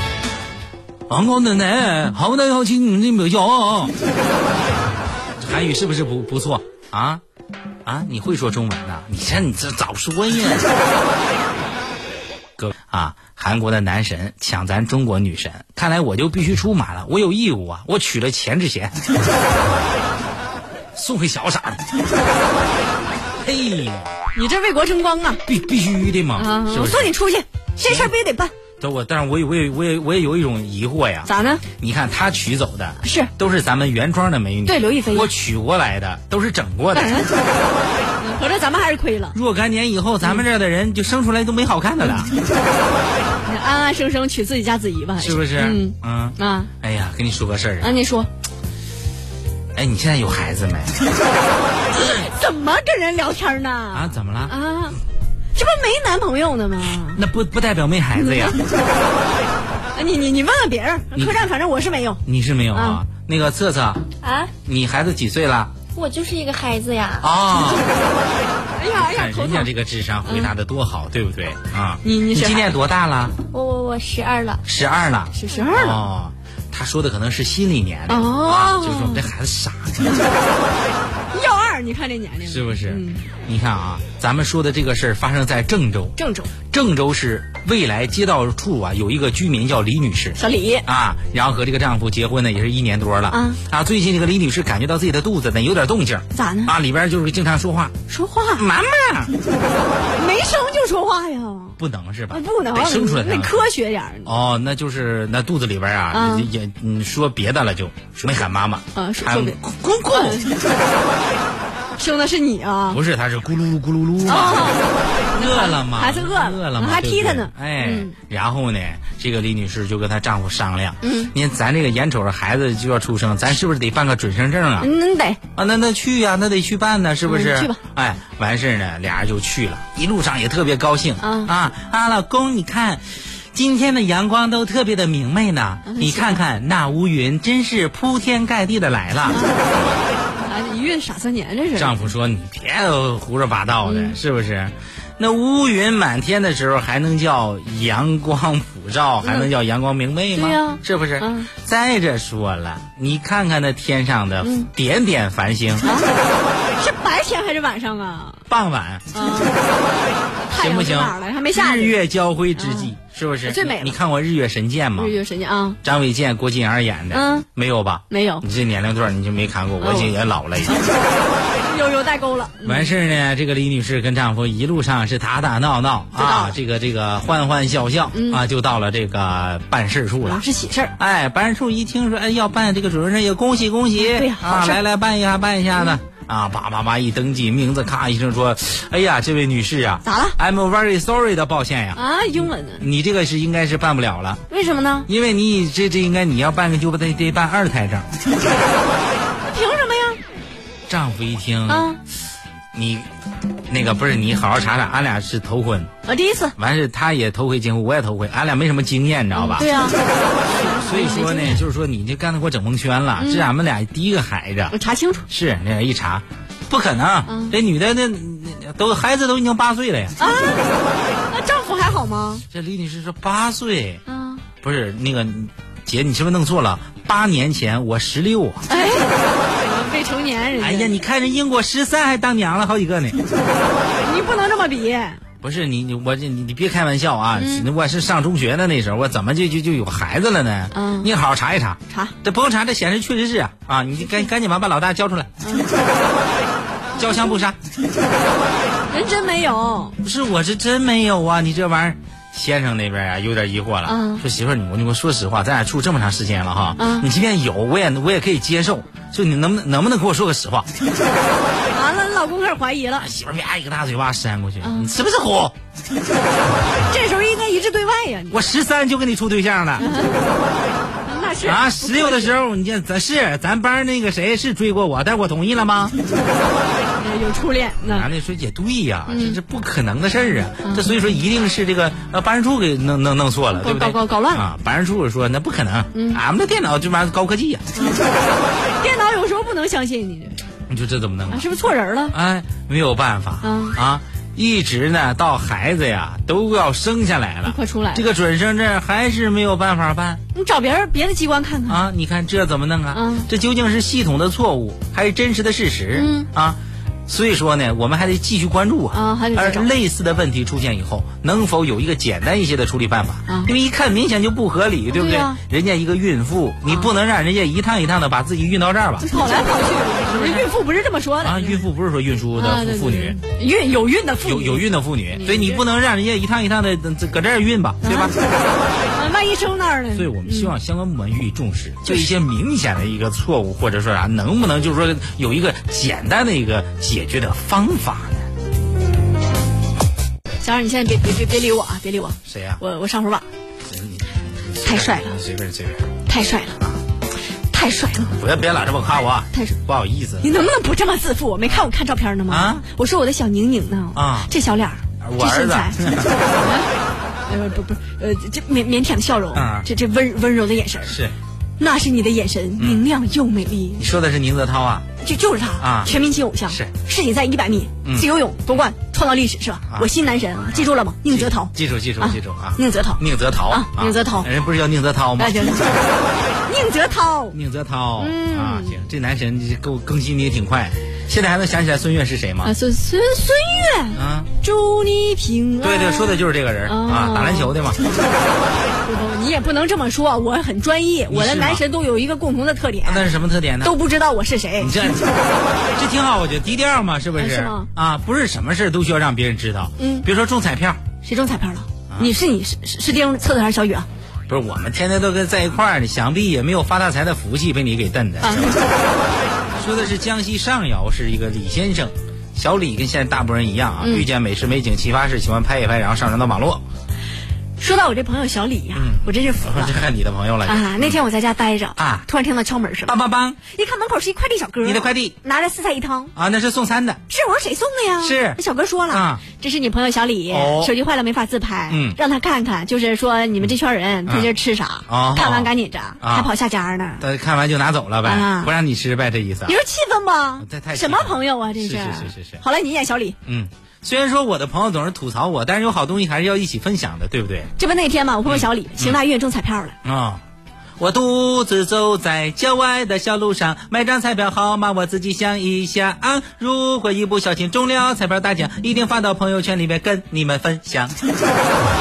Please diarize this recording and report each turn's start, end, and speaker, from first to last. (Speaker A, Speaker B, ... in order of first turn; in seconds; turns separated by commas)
Speaker A: 1.1-3.9, Speaker A: 5.4-7.2, Speaker A: 7.8-10.7, Speaker A: 12.6-18.9, Speaker A: 20.9-21.8, Speaker A: 23.4-24.1, Speaker B: 24.4-25.4, Speaker A: 25.5-27.1, Speaker B: 26.4-28.5, Speaker A: 27.9-28.1, Speaker A: 28.8-37.3, Speaker B: 31.3-31.6, Speaker B: 33.0-33.3, Speaker B: 34.7-35.3, Speaker B: 36.9-37.4, Speaker B: 38.2-39.4, Speaker A: 39.3-42.3, Speaker B: 43.4-46.7, Speaker A: 45.2-48.0, Speaker B: 47.8-48.3, Speaker A: 49.8-51.0, Speaker B: 51.9-55.0, Speaker A: 53.9-54.5, Speaker B: 55.5-57.2, Speaker A: 57.1-58.6, Speaker B: 58.1-58.6, Speaker B: 60.0-62.2, Speaker A: 61.1-61.5, Speaker A: 62.2-64.0, Speaker B: 62.7-63.0, Speaker A: 64.7-65.7, Speaker C: 66.0-67.3, Speaker A: 67.2-67.9, Speaker B: 68.8-69.7, Speaker A: 68.9-73.4, Speaker B: 70.3-70.5, Speaker B: 72.0-72.7, Speaker C: 73.5-74.6, Speaker A: 74.6-80.2, Speaker B: 75.3-76.0, Speaker B: 78.1-79.3, Speaker B: 81.3-83.3, Speaker A: 82.5-86.2, Speaker B: 86.2-86.5, Speaker A: 86.7-97.9, Speaker B: 90.4-90.9, Speaker B: 93.3-93.6, Speaker B: 96.3-96.8, Speaker B: 98.1-98.7, Speaker A: 98.6-99.3, Speaker B: 100.2-101.8, Speaker A: 101.8-103.7, Speaker B: 102.3-104.3, Speaker A: 104.3-110.5, Speaker B: 106.1-106.5, Speaker B: 108.9-109.6, Speaker B: 110.1-110.6, Speaker B: 112.0-113.0, Speaker A: 112.9-114.8, Speaker B: 114.2-118.1, Speaker A: 115.3-124.9, Speaker B: 121.0-121.3, Speaker B: 124.8-125.4, Speaker A: 125.6-139.4, Speaker B: 127.2-127.8, Speaker B: 131.2-131.5, Speaker B: 135.9-136.4, Speaker B: 139.3-139.7, Speaker B: 140.3-142.0, Speaker A: 141.8-155.9, Speaker B: 143.8-144.2, Speaker B: 149.2-149.5, Speaker B: 150.3-151.5, Speaker B: 154.4-154.7, Speaker B: 155.8-156.1, Speaker B: 156.8-158.4, Speaker A: 158.5-159.1, Speaker B: 159.1-159.6, Speaker B: 160.4-162.0, Speaker A: 160.5-165.2, Speaker B: 162.6-162.9, Speaker B: 163.4-163.9, Speaker B: 165.0-165.8, Speaker A: 165.8-170.9, Speaker B: 167.1-167.5, Speaker B: 168.1-168.4, Speaker B: 169.8-170.2, Speaker B: 170.7-171.0, Speaker B: 171.5-172.9, Speaker A: 172.6-180.4, Speaker B: 176.2-176.6, Speaker B: 178.1-178.4, Speaker B: 180.2-180.9, Speaker A: 181.0-192.0, Speaker B: 184.0-184.8, Speaker B: 190.0-190.4, Speaker B: 191.9-192.8, Speaker A: 192.8-194.4, Speaker B: 194.5-195.1, Speaker A: 195.1-198.1, Speaker B: 199.4-200.2, Speaker A: 200.9-202.0, Speaker B: 201.7-202.0, Speaker A: 202.7-203.1, Speaker A: 203.7-205.9, Speaker B: 206.1-206.6, Speaker A: 206.6-209.7, Speaker B: 209.3-211.6, Speaker A: 210.5-214.7, Speaker B: 213.2-213.5, Speaker B: 214.7-215.3, Speaker A: 215.3-220.2, Speaker B: 217.3-217.6, Speaker B: 220.2-220.8, Speaker B: 221.3-222.4, Speaker A: 222.5-224.0, Speaker B: 224.1-224.4, Speaker A: 224.6-228.7, Speaker B: 228.7-230.9, Speaker A: 230.6-233.2, Speaker B: 234.0-235.2, Speaker A: 235.4-245.3, Speaker B: 237.4-237.7, Speaker B: 240.7-241.1, Speaker B: 241.9-242.1, Speaker B: 245.4-245.7, Speaker A: 247.0-247.6, Speaker B: 248.9-250.0, Speaker A: 250.0-260.7, Speaker B: 253.8-254.2, Speaker B: 256.8-257.1, Speaker B: 261.7-263.1, Speaker A: 263.0-265.6, Speaker B: 264.6-265.0, Speaker B: 266.9-268.5, Speaker A: 268.3-269.9, Speaker B: 269.8-270.3, Speaker B: 271.1-272.4, Speaker A: 271.4-276.0, Speaker B: 277.0-278.1, Speaker A: 277.8-287.7, Speaker B: 279.1-279.4, Speaker B: 283.6-284.5, Speaker B: 285.9-286.2, Speaker B: 287.8-288.1, Speaker B: 288.8-290.4, Speaker A: 290.7-291.5, Speaker B: 291.3-292.2, Speaker A: 292.1-300.2, Speaker B: 293.4-293.8, Speaker B: 297.4-298.1, Speaker B: 300.3-301.8, Speaker A: 301.7-319.3, Speaker B: 302.9-303.3, Speaker B: 305.9-306.3, Speaker B: 308.9-309.7, Speaker B: 313.3-313.5, Speaker B: 314.9-315.4, Speaker B: 319.0-321.6, Speaker A: 320.1-320.5, Speaker A: 321.2-323.2, Speaker B: 322.3-325.6, Speaker A: 324.2-328.2, Speaker B: 327.8-328.2, Speaker B: 328.9-330.6, Speaker A: 329.9-338.3, Speaker B: 331.9-332.1, Speaker B: 340.4-343.3, Speaker A: 342.3-342.6, Speaker A: 343.7-345.9, Speaker B: 344.6-345.2, Speaker B: 346.1-346.6, Speaker B: 347.5-348.1, Speaker A: 348.1-350.3, Speaker B: 350.2-356.7, Speaker A: 352.3-352.6, Speaker A: 353.9-354.3, Speaker A: 355.0-356.1, Speaker B: 357.3-361.0, Speaker A: 359.4-359.7, Speaker A: 360.9-361.1, Speaker B: 361.6-363.9, Speaker A: 362.6-362.8, Speaker A: 363.8-364.9, Speaker B: 365.0-374.3, Speaker A: 365.6-365.9, Speaker A: 366.5-366.7, Speaker A: 367.8-368.1, Speaker A: 370.5-375.7, Speaker B: 375.2-375.7, Speaker B: 376.5-377.4, Speaker A: 377.3-382.5, Speaker B: 378.0-378.8, Speaker B: 382.4-387.6, Speaker A: 383.9-384.3, Speaker A: 385.6-387.8, Speaker B: 388.8-393.1, Speaker A: 391.1-391.6, Speaker A: 392.9-393.7, Speaker B: 393.6-394.7, Speaker A: 394.6-395.1, Speaker A: 395.8-400.8, Speaker B: 397.2-397.7, Speaker B: 399.8-400.1, Speaker B: 401.0-403.9, Speaker A: 404.3-408.6, Speaker B: 408.2-408.7, Speaker A: 409.6-416.6, Speaker B: 413.8-414.1, Speaker B: 417.6-419.8, Speaker A: 418.8-421.0, Speaker B: 420.4-426.1, Speaker A: 421.8-422.1, Speaker A: 422.9-423.4, Speaker A: 424.6-425.1, Speaker A: 426.1-427.0, Speaker B: 427.1-437.1, Speaker A: 428.0-429.2, Speaker A: 430.3-430.7, Speaker A: 431.7-432.0, Speaker A: 434.1-434.3, Speaker A: 434.9-436.3, Speaker A: 437.0-439.6, Speaker B: 438.0-438.5, Speaker B: 439.5-443.2, Speaker A: 440.4-442.4, Speaker A: 443.3-447.5, Speaker B: 447.6-449.8, Speaker A: 448.3-449.0, Speaker A: 449.8-450.2, Speaker A: 450.8-461.0